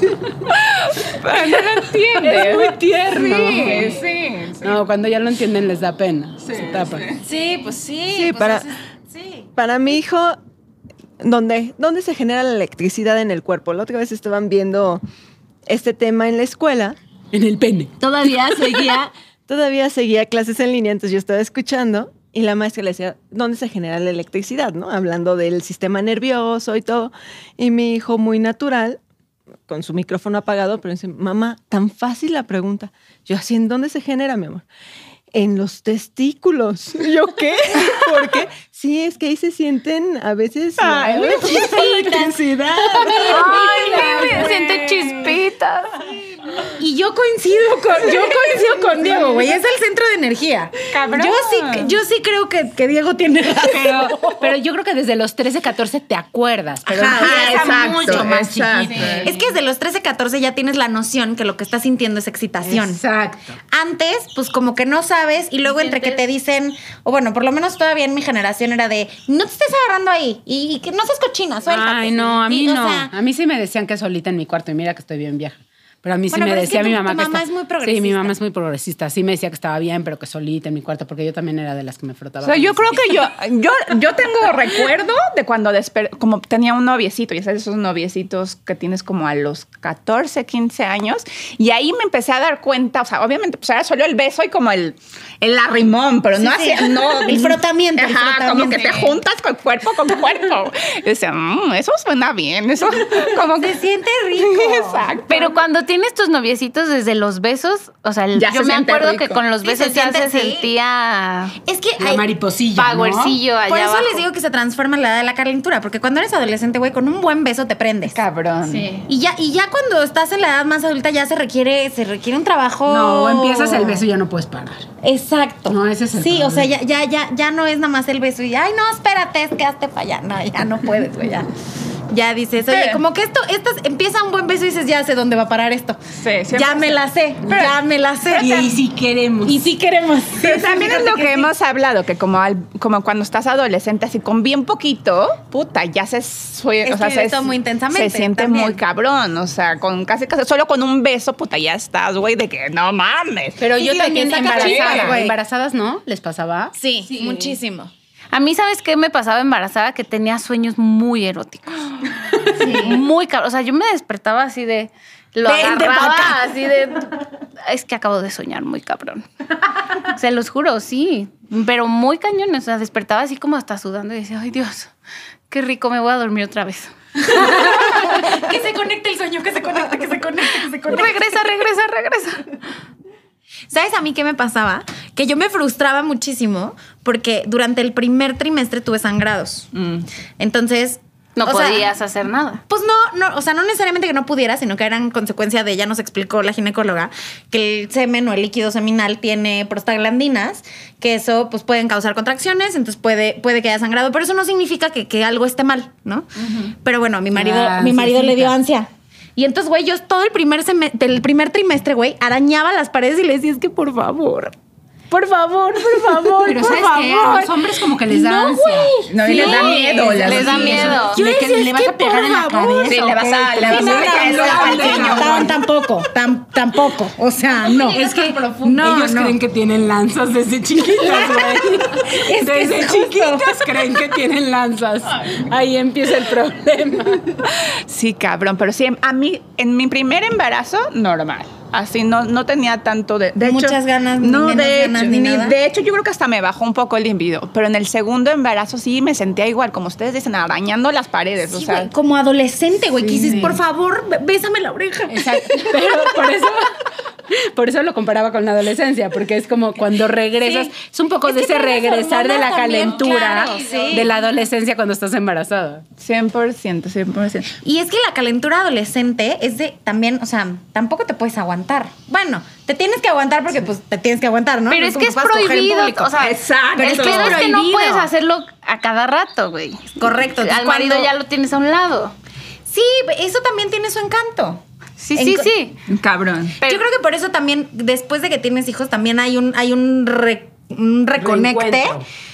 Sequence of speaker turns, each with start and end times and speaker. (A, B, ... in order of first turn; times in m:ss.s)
0:00.5-0:04.8 A
0:02.1-0:04.0 B
0:04.6-0:07.1 B
0:06.5-0:07.2 A
0:07.2-0:09.5 C
0:08.1-0:08.7 D
0:09.6-0:10.4 D
0:11.2-0:15.0 D
0:15.7-0:17.0 D
0:17.3-0:18.7 B
0:18.3-0:29.0 D
0:18.4-0:19.0 E
0:29.7-0:34.7 D
0:35.3-0:44.4 D
0:41.2-0:42.4 C
0:41.2-0:41.7 A
0:43.0-0:44.5 C
0:43.3-0:46.1 E
0:43.8-0:44.7 A
0:46.8-0:54.4 C
0:50.9-0:51.9 A
0:53.7-0:59.3 B
0:56.9-0:59.3 A
0:56.9-1:03.0 C
1:02.6-1:03.6 B
1:03.7-1:13.1 C
1:05.6-1:06.2 E
1:11.7-1:23.2 B
1:16.3-1:18.4 C
1:22.4-1:43.8 A
1:36.4-1:39.2 C
1:43.5-1:45.2 C
1:44.4-1:45.5 A
1:45.3-1:51.6 E
1:48.3-1:49.4 A
1:49.6-1:50.7 C
1:51.6-1:52.3 C
1:52.0-1:53.4 B
1:52.8-1:54.2 E
1:53.7-1:58.2 C
1:58.1-1:58.9 A
1:58.6-1:59.1 E
1:59.1-2:04.0 C
2:02.9-2:04.9 B
2:05.0-2:11.5 C
2:05.7-2:06.7 B
2:12.1-2:16.0 C
2:12.7-2:13.0 A
2:16.2-2:17.8 A
2:16.5-2:18.8 C
2:18.2-2:19.6 B
2:19.4-2:21.5 C
2:20.4-2:35.2 A
2:26.8-2:28.8 C
2:33.6-2:36.8 B
2:33.8-2:35.4 C
2:36.8-2:37.9 C
2:38.3-2:47.0 E
2:42.5-2:43.0 C
2:45.4-2:46.9 C
2:47.7-2:49.2 E
2:50.0-2:54.9 E
2:55.5-2:58.0 E
2:57.2-3:01.3 C
3:00.8-3:02.6 E
3:03.7-3:09.7 C
3:09.8-3:10.1 A
3:10.4-3:11.9 C
3:11.4-3:12.6 E
3:12.7-3:34.6 C
3:27.3-3:28.6 B
3:35.1-3:39.0 B
3:35.8-3:49.4 C
3:39.1-3:41.0 A
3:39.2-3:41.2 E
3:40.2-3:45.6 B
3:42.8-3:45.5 A
3:47.8-3:57.4 B
3:51.0-3:54.0 C
3:57.7-4:11.9 A
4:03.4-4:05.6 C
4:11.4-4:16.0 C
4:13.1-4:13.5 A
4:13.1-4:13.6 B
4:15.1-4:16.8 B
4:17.3-4:25.8 B
4:20.4-4:20.7 C
4:21.2-4:24.1 C
4:23.0-4:24.1 E
4:26.0-4:27.5 A
4:27.6-4:36.2 C
4:34.7-4:42.2 E
4:36.2-4:37.4 A
4:36.8-4:38.1 C
4:40.0-4:41.1 C
4:42.7-4:44.6 C
4:45.0-4:45.8 E
4:45.2-4:45.5 C
4:45.9-4:46.6 A
4:46.6-4:46.9 E
4:46.6-4:52.0 C
4:51.2-4:52.0 B